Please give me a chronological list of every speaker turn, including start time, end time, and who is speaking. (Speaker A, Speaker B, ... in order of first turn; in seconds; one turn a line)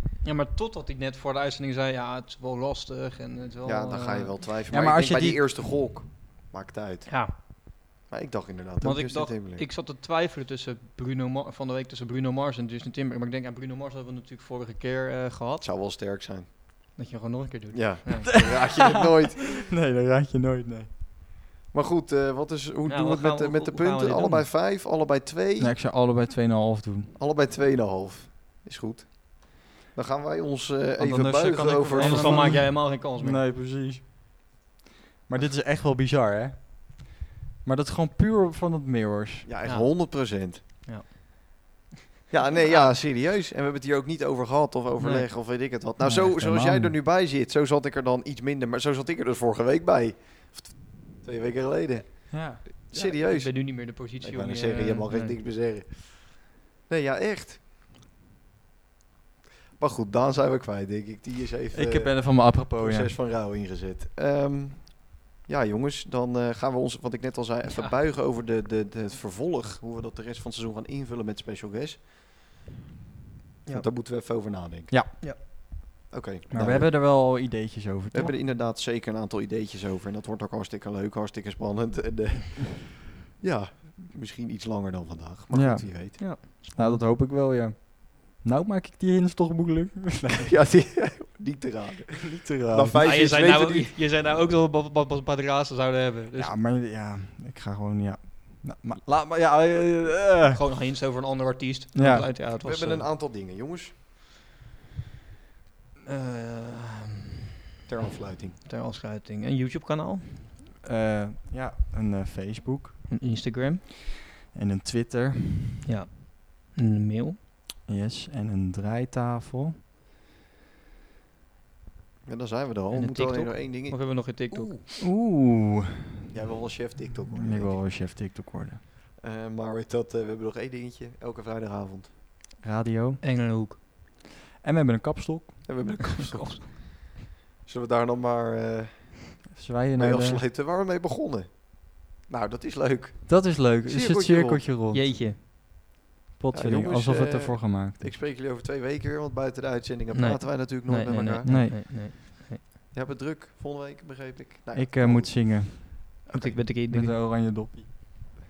Speaker A: 0.2-4.3
Speaker B: 3.6-7.4
Speaker C: 4.7-5.5
Speaker A: 7.1-7.3
Speaker B: 8.1-9.7
Speaker A: 8.8-15.7
Speaker B: 15.6-16.5
Speaker A: 16.9-18.6
Speaker B: 17.7-19.6
Speaker C: 18.3-20.9
Speaker B: 21.7-25.7
Speaker A: 22.9-24.4
Speaker C: 25.6-27.2
Speaker B: 27.1-32.6
Speaker C: 31.0-34.0
Speaker A: 31.9-33.4
Speaker C: 35.3-37.1
Speaker C: 37.6-39.5
Speaker B: 39.4-40.6
Speaker A: 39.6-41.4
Speaker B: 42.3-57.6
Speaker A: 42.6-42.9
Speaker A: 45.0-45.9
Speaker C: 46.0-47.0
Speaker C: 52.3-52.6
Speaker A: 52.9-55.4
Speaker B: 59.8-72.0
Speaker C: 61.7-63.1
Speaker A: 67.7-67.9
Speaker B: 73.7-75.2
Speaker B: 76.1-76.9
Speaker C: 76.5-78.3
Speaker B: 78.1-86.2
Speaker C: 85.5-90.5
Speaker A: 86.2-87.0
Speaker B: 90.5-94.0
Speaker C: 92.2-93.1
Speaker A: 92.9-96.5
Speaker C: 96.4-100.6
Speaker A: 100.5-103.1
Speaker C: 101.9-102.3
Speaker B: 102.6-103.9
Speaker A: 106.0-107.3
Speaker B: 107.9-108.6
Speaker A: 108.4-110.6
Speaker C: 110.8-113.1
Speaker A: 113.1-113.8
Speaker C: 114.5-115.8
Speaker A: 115.8-117.4
Speaker C: 117.8-119.8
Speaker B: 122.2-124.8
Speaker A: 122.9-124.8
Speaker C: 125.0-126.0
Speaker B: 126.3-127.9
Speaker C: 127.3-128.8
Speaker B: 129.2-132.1
Speaker C: 132.6-133.2
Speaker A: 133.2-133.8
Speaker C: 134.6-135.8
Speaker B: 135.7-144.6
Speaker A: 136.2-136.6
Speaker C: 139.5-140.4
Speaker C: 143.3-145.1
Speaker A: 144.9-145.4
Speaker C: 146.4-148.1
Speaker B: 146.5-151.7
Speaker A: 150.1-152.6
Speaker C: 151.4-152.0
Speaker B: 152.9-156.6
Speaker C: 154.7-156.2
Speaker A: 156.3-157.1
Speaker C: 156.9-157.9